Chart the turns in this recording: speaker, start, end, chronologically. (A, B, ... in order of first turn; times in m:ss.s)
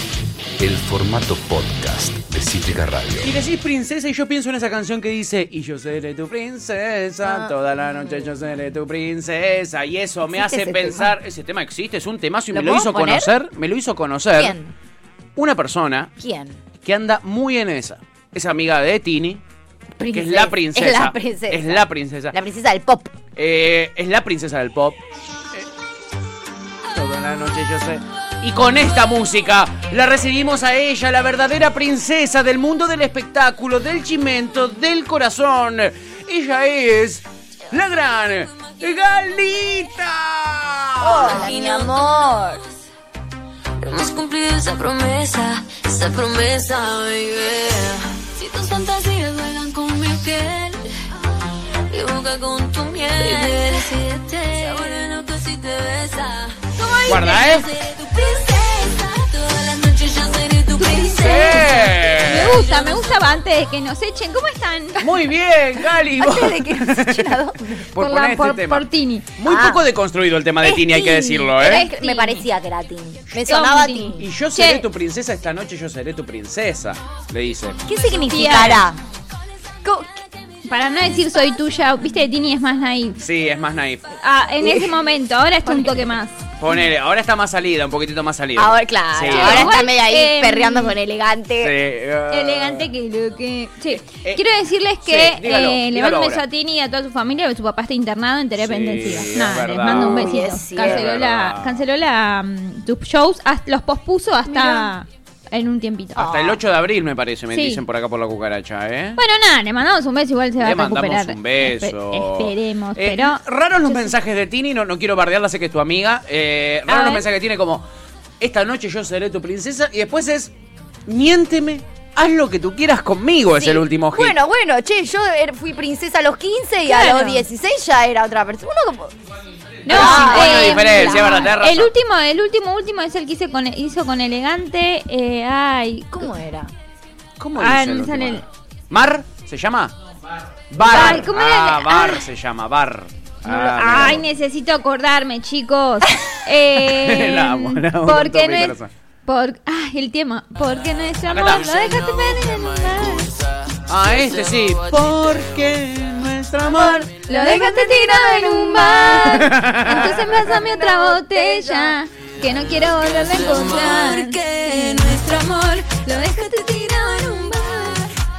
0:00.6-0:03.4 A
0:03.2-0:14.6 B
0:07.2-0:08.3 C
0:10.3-0:11.1 C
0:12.5-0:13.3 C
0:14.3-0:14.7 C
0:15.4-0:16.1 B
0:16.2-0:16.6 C
0:16.8-0:19.4 B
0:20.0-0:21.8 C
0:20.1-0:22.3 B
0:22.3-0:23.1 C
0:23.4-0:25.0 B
0:26.9-0:41.5 B
0:41.0-0:42.6 C
0:41.4-0:42.2 D
0:43.8-0:50.9 D
0:51.9-1:03.3 D
0:53.4-0:53.7 E
0:56.8-0:57.4 E
0:57.1-0:57.7 B
1:00.9-1:01.6 E
1:01.2-1:02.6 B
1:02.2-1:05.0 E
1:05.0-1:08.9 B
1:06.1-1:07.8 C
1:08.0-1:09.3 E
1:09.4-1:11.8 B
1:09.4-1:09.8 C
1:10.6-1:12.5 E
1:11.6-1:14.3 C
1:13.4-1:14.8 E
1:14.2-1:17.8 B
1:17.8-1:19.0 C
1:18.2-1:18.8 E
1:19.8-1:20.1 C
1:20.7-1:23.2 E
1:23.2-1:24.1 B
1:24.2-1:26.4 E
1:24.6-1:24.9 C
1:25.6-1:26.0 C
1:26.6-1:29.8 B
1:28.6-1:31.7 C
1:29.3-1:31.0 E
1:31.6-1:32.9 B
1:32.3-1:46.2 E
1:34.1-1:34.4 B
1:35.0-1:36.4 B
1:38.6-1:41.8 B
1:39.9-1:41.0 C
1:44.5-1:44.9 C
1:46.2-1:46.6 C
1:46.2-1:49.2 B
1:47.5-1:47.8 E
1:49.2-1:54.1 E
1:50.6-1:57.8 B
1:56.9-1:57.2 E
1:58.4-2:00.5 B
2:01.1-2:04.4 B
2:03.5-2:09.1 C
2:06.8-2:07.4 E
2:09.8-2:11.5 C
2:09.8-2:16.3 E
2:09.9-2:11.9 B
2:16.1-2:16.7 C
2:17.4-2:19.9 B
2:17.6-2:18.4 E
2:20.7-2:24.3 B
2:20.8-2:22.2 E
2:20.9-2:21.2 C
2:23.4-2:33.3 E
2:26.8-2:28.9 B
2:31.3-2:32.1 B
2:31.8-2:33.2 D
2:33.9-2:37.1 B
2:34.4-2:34.6 D
2:36.7-2:39.3 C
2:37.2-2:48.1 E
2:39.2-2:40.3 B
2:40.1-2:42.0 C
2:43.2-2:45.4 D